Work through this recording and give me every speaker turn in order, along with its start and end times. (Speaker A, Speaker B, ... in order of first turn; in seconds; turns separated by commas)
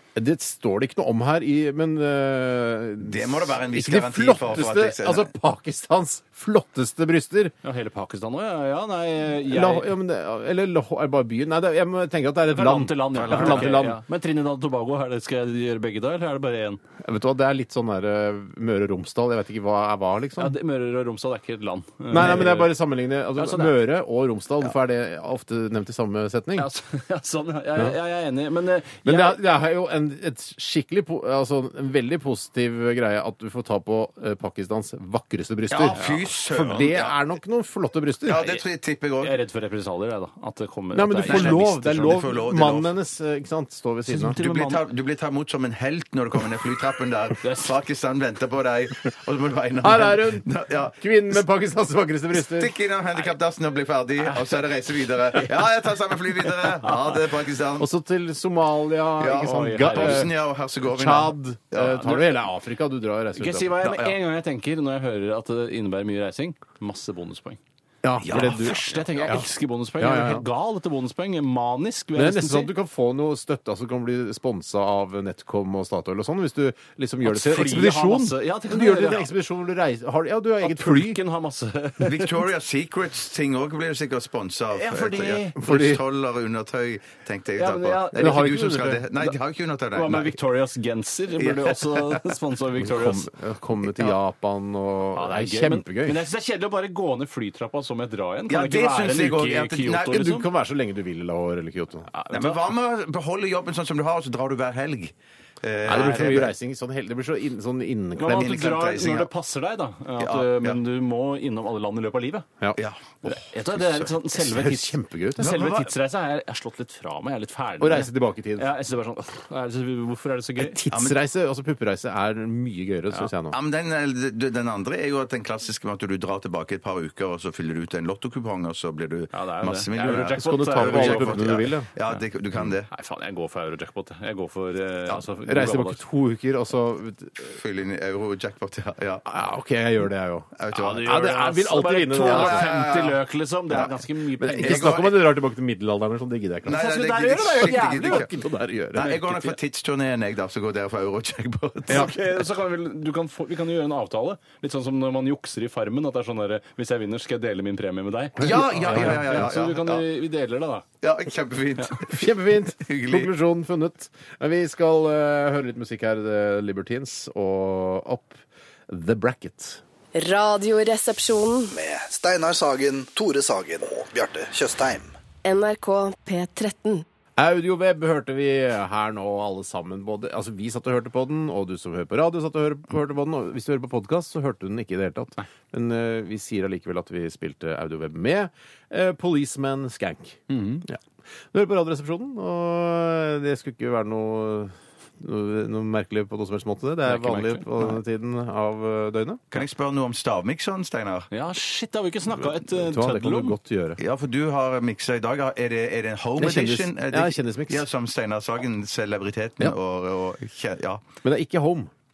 Speaker A: 0.1-7.5, Speaker B: 3.0-5.3, Speaker C: 7.6-9.9, Speaker A: 9.5-14.0, Speaker C: 12.5-16.8, Speaker B: 13.1-13.8, Speaker A: 17.0-20.5, Speaker C: 20.4-22.8, Speaker A: 22.1-26.7, Speaker C: 23.4-23.8, Speaker C: 26.6-29.4, Speaker A: 29.1-38.6, Speaker B: 35.7-37.2, Speaker C: 36.0-36.3, Speaker B: 38.2-39.4, Speaker C: 39.2-42.2, Speaker A: 40.9-44.4, Speaker B: 41.3-42.9, Speaker C: 44.1-44.8, Speaker B: 44.4-51.0, Speaker C: 47.4-47.7, Speaker A: 49.8-52.8, Speaker B: 52.3-57.9, Speaker C: 54.2-54.6, Speaker C: 56.6-57.1, Speaker A: 57.8-63.8, Speaker B: 59.2-62.2, Speaker C: 59.3-60.3, Speaker C: 63.4-67.6, Speaker B: 63.8-64.2, Speaker A: 68.0-70.5, Speaker B: 68.2-69.4, Speaker C: 68.3-72.7, Speaker A: 72.2-81.2, Speaker C: 77.2-79.3, Speaker C: 80.6-82.4, Speaker B: 82.0-90.4, Speaker C: 84.7-85.6, Speaker A: 85.6-86.0, Speaker C: 87.6-89.3, Speaker A: 88.2-89.0, Speaker C: 89.9-93.3, Speaker B: 91.4-92.2, Speaker A: 92.8-96.2, Speaker C: 95.1-100.5, Speaker B: 98.5-100.3, Speaker A: 100.1-102.1, Speaker C: 102.1-102.7, Speaker B: 102.3-106.5, Speaker A: 105.9-108.6, Speaker C: 105.9-106.5, Speaker C: 108.2-112.5, Speaker B: 108.3-109.3, Speaker B: 110.2-110.8, Speaker B: 112.8-113.2, Speaker C: 113.2-120.8, Speaker A: 114.3-115.6, Speaker B: 115.4-115.9, Speaker A: 117.8-118.7, Speaker A: 120.6-123.6, Speaker B: 120.9-121.2, Speaker B: 123.5-132.9, Speaker C: 129.3-132.2, Speaker A: 130.1-131.9, Speaker C: 132.9-136.0, Speaker A: 135.5-137.6, Speaker B: 137.5-139.3, Speaker A: 139.3-142.8, Speaker B: 140.6-141.2, Speaker C: 140.7-145.0, Speaker B: 142.2-143.9, Speaker A: 144.4-149.2, Speaker B: 144.6-145.3, Speaker B: 146.7-148.3, Speaker C: 146.7-148.3, Speaker B: 148.9-152.2, Speaker C: 149.0-149.6, Speaker C: 151.9-160.8, Speaker A: 158.4-159.5, Speaker B: 158.4-160.1, Speaker B: 161.0-162.3, Speaker A: 162.1-169.8, Speaker B: 162.8-163.3, Speaker D: 170.2-171.7, Speaker E: 171.7-175.1, Speaker D: 175.4-177.0, Speaker A: 177.4-191.0, Speaker C: 190.5-190.8, Speaker A: 191.5-199.4, Speaker C: 197.1-198.0, Speaker B: 199.5-201.3, Speaker C: 201.3-203.6, Speaker A: 202.4-204.0, Speaker B: 204.0-211.0, Speaker A: 206.4-207.8, Speaker A: 211.2-211.9